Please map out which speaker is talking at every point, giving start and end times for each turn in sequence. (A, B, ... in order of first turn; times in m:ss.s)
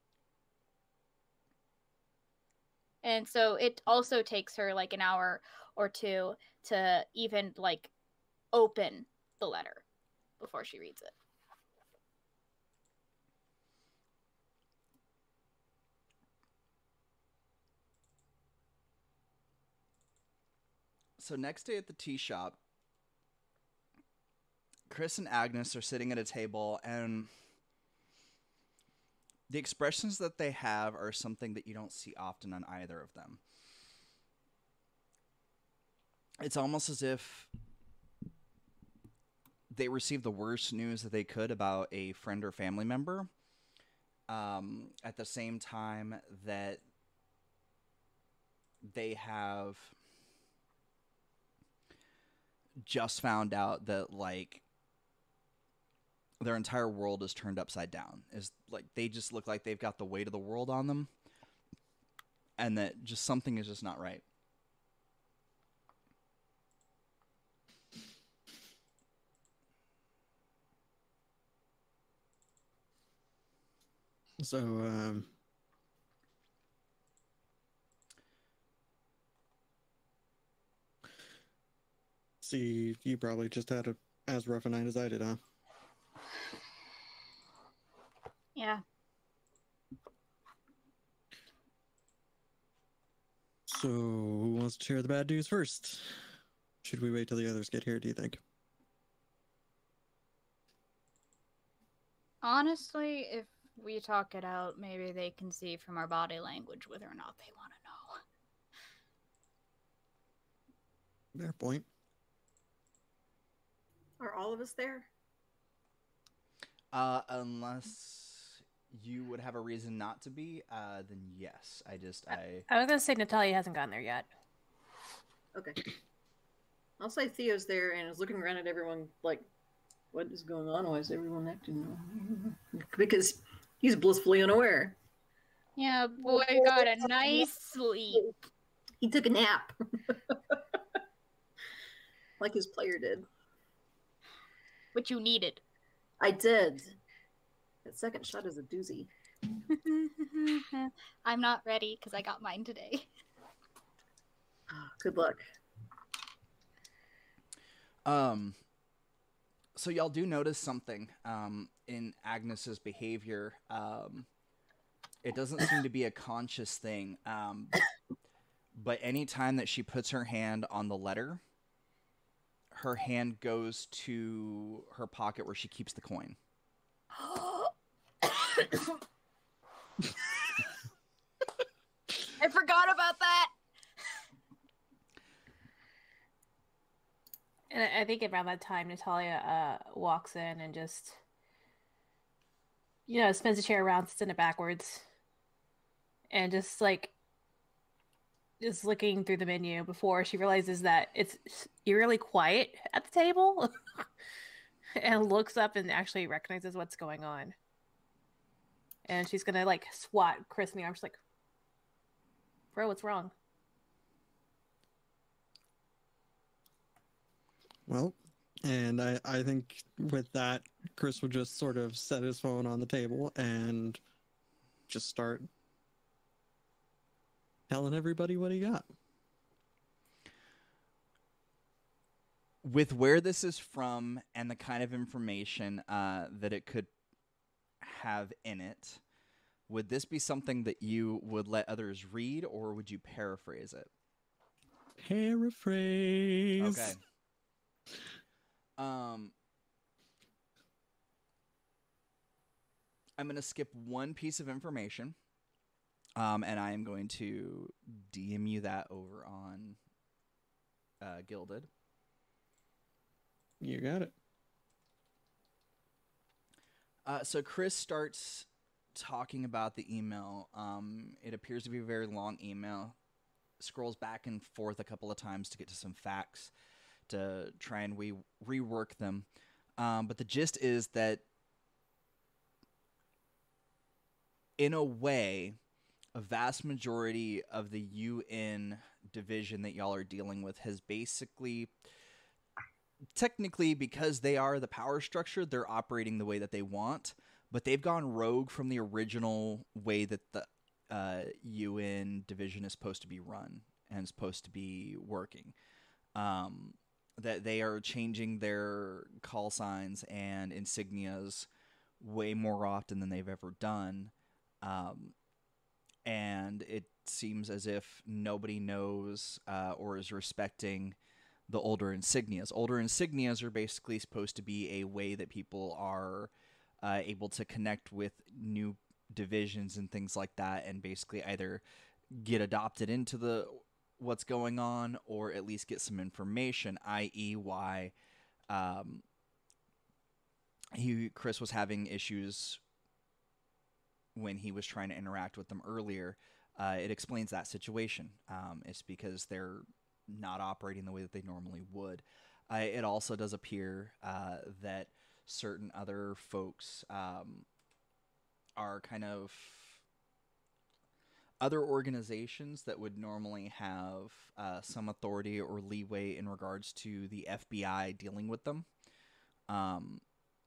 0:03.0-0:07.9 A
0:08.5-0:09.8 A
0:10.4-0:11.1 A
0:21.2-0:22.6 B
0:24.9-0:27.3 B
0:29.5-0:33.4 B
0:36.4-0:37.5 B
0:39.7-0:43.3 B
0:44.3-0:46.8 B
0:48.8-0:49.9 B
0:52.8-0:54.6 B
0:56.4-1:01.1 B
1:02.6-1:04.2 B
1:14.4-1:15.3 C
1:22.4-1:25.4 C
1:28.6-1:28.8 A
1:33.7-1:36.2 C
1:36.8-1:38.4 C
1:42.4-1:48.2 A
1:51.3-1:51.8 C
1:54.2-1:55.1 D
1:56.9-2:02.6 B
2:02.7-2:04.3 E
2:05.5-2:05.8 D
2:07.0-2:09.5 D
2:10.1-2:15.0 D
2:15.8-2:18.3 A
2:16.3-2:17.5 D
2:19.0-2:20.6 D
2:22.4-2:23.2 D
2:24.9-2:25.6 A
2:26.2-2:27.0 D
2:27.8-2:29.1 D
2:29.7-2:33.1 A
2:34.7-2:35.4 D
2:38.0-2:38.6 B
2:39.7-2:44.3 B
2:45.2-2:47.9 B
2:48.7-2:51.4 B
2:52.7-2:56.4 B
2:57.1-2:57.7 A
2:58.2-2:59.0 A
3:02.4-3:03.5 A
3:07.7-3:11.2 E
3:13.1-3:15.0 E
3:16.3-3:17.1 E
3:18.6-3:24.1 E
3:25.0-3:27.5 E
3:29.0-3:31.2 E
3:32.7-3:33.3 E
3:37.9-3:44.0 C
3:44.9-3:45.5 C
3:47.7-3:48.9 C
3:52.6-3:56.9 B
3:57.8-3:59.0 B
3:59.7-4:03.9 B
4:05.0-4:06.9 C
4:06.6-4:07.0 B
4:08.8-4:09.3 B
4:13.2-4:15.1 B
4:16.2-4:19.8 B
4:21.0-4:21.7 B
4:23.6-4:24.1 C
4:27.0-4:32.9 B
4:33.6-4:36.5 B
4:37.1-4:39.2 B
4:39.8-4:41.2 B
4:44.6-4:45.6 B
4:46.1-4:51.7 B
4:53.1-5:05.5 B
5:06.2-5:11.5 B
5:12.0-5:15.1 B
5:16.0-5:21.0 B
5:21.5-5:26.3 B
5:26.8-5:37.9 B
5:38.5-5:39.0 B
5:40.7-5:42.6 B
5:44.1-5:57.4 B
5:58.6-5:59.8 B
6:01.4-6:08.7 B
6:09.5-6:10.0 B